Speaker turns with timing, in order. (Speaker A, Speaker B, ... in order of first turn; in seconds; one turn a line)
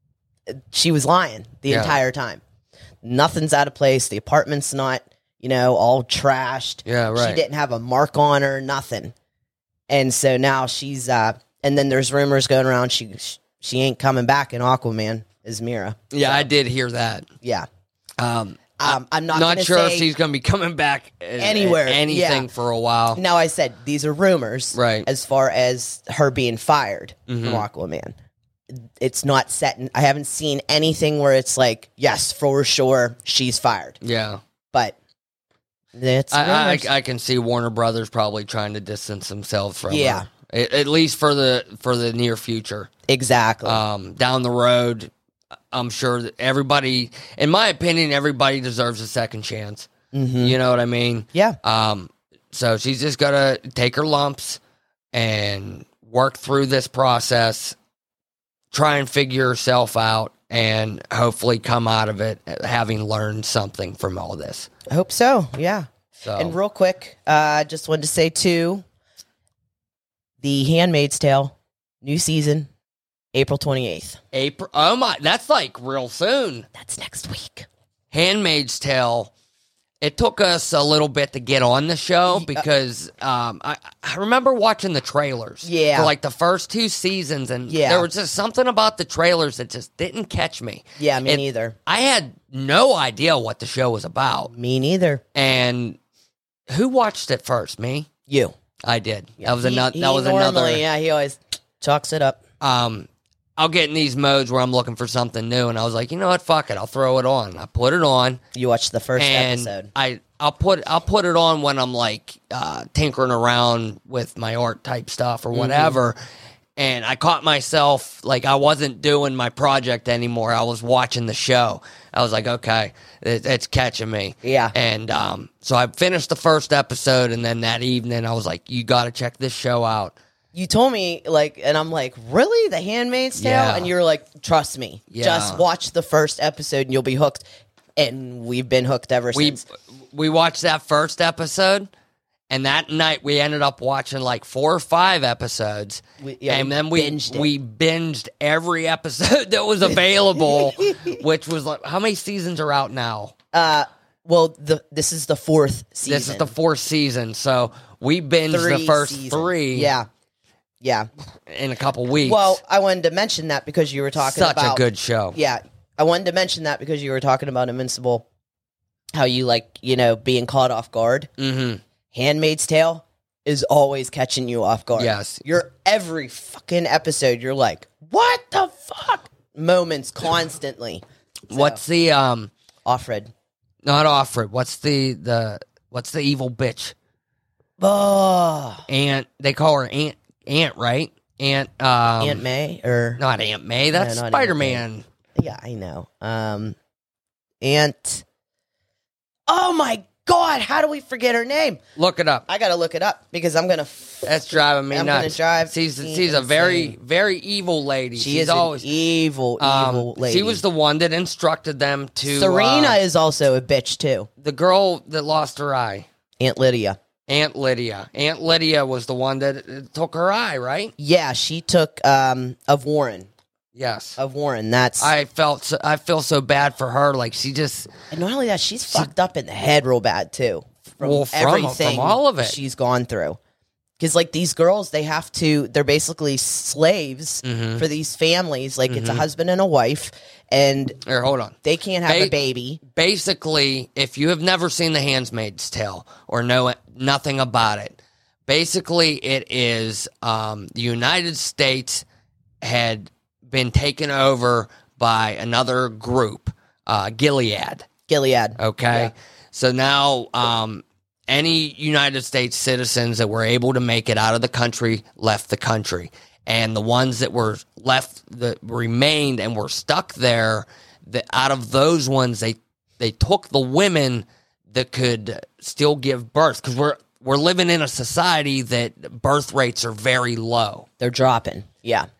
Speaker A: 0.5-2.4
Speaker B: 1.7-1.9
Speaker A: 3.0-9.1
Speaker B: 6.9-7.4
Speaker A: 9.9-16.4
Speaker B: 16.1-17.3
Speaker A: 17.4-17.7
Speaker B: 18.2-23.2
Speaker A: 18.8-20.1
Speaker A: 21.4-22.5
Speaker A: 23.1-28.1
Speaker B: 24.7-25.1
Speaker B: 27.3-27.6
Speaker A: 28.7-34.0
Speaker B: 34.0-34.4
Speaker A: 35.9-36.9
Speaker B: 36.3-42.9
Speaker A: 39.9-40.3
Speaker A: 43.1-43.8
Speaker B: 43.6-45.1
Speaker B: 45.7-49.9
Speaker A: 50.1-50.6
Speaker B: 50.4-54.6
Speaker B: 55.1-57.8
Speaker B: 58.7-64.7
Speaker A: 64.9-68.8
Speaker B: 66.2-66.6
Speaker A: 70.4-72.7
Speaker A: 73.3-74.2
Speaker B: 74.3-76.7
Speaker A: 76.7-77.7
Speaker B: 78.1-79.3
Speaker B: 80.0-94.5
Speaker A: 82.3-82.6
Speaker A: 85.6-86.1
Speaker A: 87.7-88.1
Speaker A: 91.0-91.8
Speaker A: 94.5-95.2
Speaker B: 95.3-96.0
Speaker B: 96.7-98.1
Speaker A: 98.3-98.5
Speaker B: 98.8-100.8
Speaker A: 99.4-102.4
Speaker B: 102.6-108.4
Speaker A: 108.5-109.9
Speaker B: 109.2-116.2
Speaker A: 115.5-116.0
Speaker B: 116.8-130.1
Speaker A: 124.4-124.7
Speaker A: 130.5-137.4
Speaker B: 133.4-133.9
Speaker B: 135.1-135.6
Speaker A: 138.0-139.6
Speaker B: 139.3-141.9
Speaker B: 142.5-153.3
Speaker A: 146.2-147.5
Speaker A: 149.9-151.2
Speaker A: 153.5-156.5
Speaker B: 156.1-159.9
Speaker A: 158.5-160.1
Speaker A: 160.8-161.1
Speaker B: 161.5-162.6
Speaker A: 162.2-168.2
Speaker B: 164.2-165.4
Speaker A: 169.1-171.3
Speaker B: 171.4-171.8
Speaker A: 172.1-181.8
Speaker B: 175.0-175.4
Speaker B: 181.5-182.5
Speaker A: 182.8-183.3
Speaker B: 183.8-186.9
Speaker A: 187.8-188.9
Speaker B: 188.9-192.4
Speaker A: 192.2-193.2
Speaker B: 193.2-195.0
Speaker A: 193.9-194.8
Speaker A: 195.3-196.8
Speaker A: 197.6-198.2
Speaker A: 199.5-201.8
Speaker B: 202.0-202.4
Speaker A: 202.5-206.9
Speaker B: 204.2-208.9
Speaker A: 208.2-210.6
Speaker B: 209.6-213.0
Speaker A: 212.2-214.3
Speaker B: 214.4-216.1
Speaker A: 216.4-217.0
Speaker B: 217.3-220.9
Speaker A: 221.0-223.3
Speaker B: 223.7-224.2
Speaker A: 224.2-225.1
Speaker B: 225.0-227.9
Speaker A: 228.1-233.4
Speaker B: 231.0-232.6
Speaker A: 234.0-241.0
Speaker B: 237.4-237.8
Speaker B: 238.9-239.2
Speaker B: 241.1-241.6
Speaker A: 241.6-242.8
Speaker B: 242.1-242.3
Speaker B: 242.9-252.1
Speaker B: 252.6-257.9
Speaker A: 258.1-259.1
Speaker B: 258.6-280.9
Speaker A: 281.0-282.1